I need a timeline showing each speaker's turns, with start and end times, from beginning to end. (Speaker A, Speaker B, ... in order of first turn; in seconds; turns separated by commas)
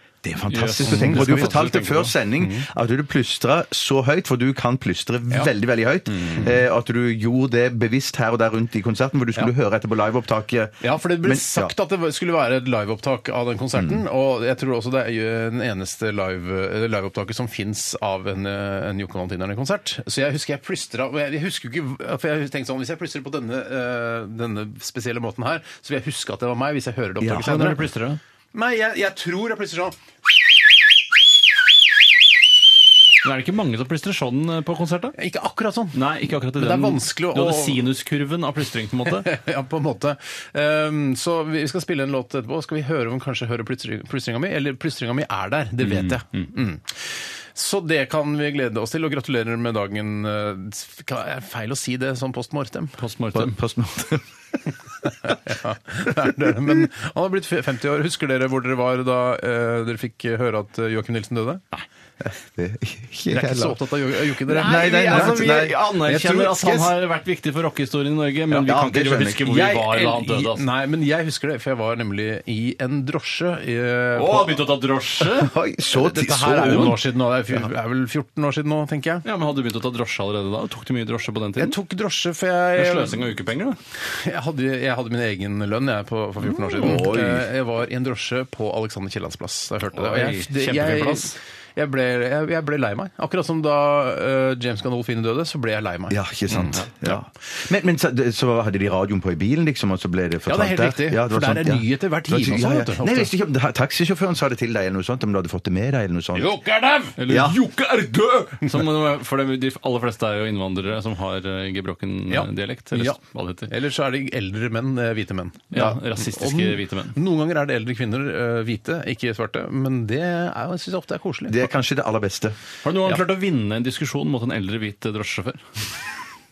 Speaker A: 0.2-11.7, Speaker B: 0.5-2.1, Speaker C: 0.8-2.6, Speaker C: 6.2-6.6, Speaker C: 10.8-27.9, Speaker A: 13.8-14.0, Speaker B: 27.2-28.2, Speaker C: 28.5-29.9, Speaker B: 33.2-35.1, Speaker C: 35.2-36.0, Speaker B: 35.9-39.3, Speaker C: 36.5-37.9, Speaker C: 39.1-47.0, Speaker B: 45.8-46.4, Speaker C: 47.5-53.0, Speaker B: 53.0-53.6, Speaker A: 53.3-54.2, Speaker C: 55.2-61.6, Speaker A: 62.2-63.8, Speaker C: 63.3-66.9, Speaker A: 64.5-65.8, Speaker B: 64.5-70.6, Speaker A: 68.5-69.5, Speaker C: 69.4-74.6, Speaker B: 74.1-75.5, Speaker A: 75.2-77.0, Speaker C: 75.9-79.2, Speaker B: 76.7-77.0, Speaker B: 79.2-81.8, Speaker C: 81.6-83.3, Speaker B: 82.8-83.8, Speaker C: 84.2-96.8, Speaker A: 86.4-87.5, Speaker B: 89.9-91.3, Speaker A: 96.1-106.5, Speaker C: 100.5-103.3, Speaker C: 106.3-107.2, Speaker B: 107.2-113.7, Speaker A: 107.3-107.6, Speaker C: 112.3-121.7, Speaker B: 115.7-117.2, Speaker A: 121.5-123.2, Speaker B: 122.8-125.6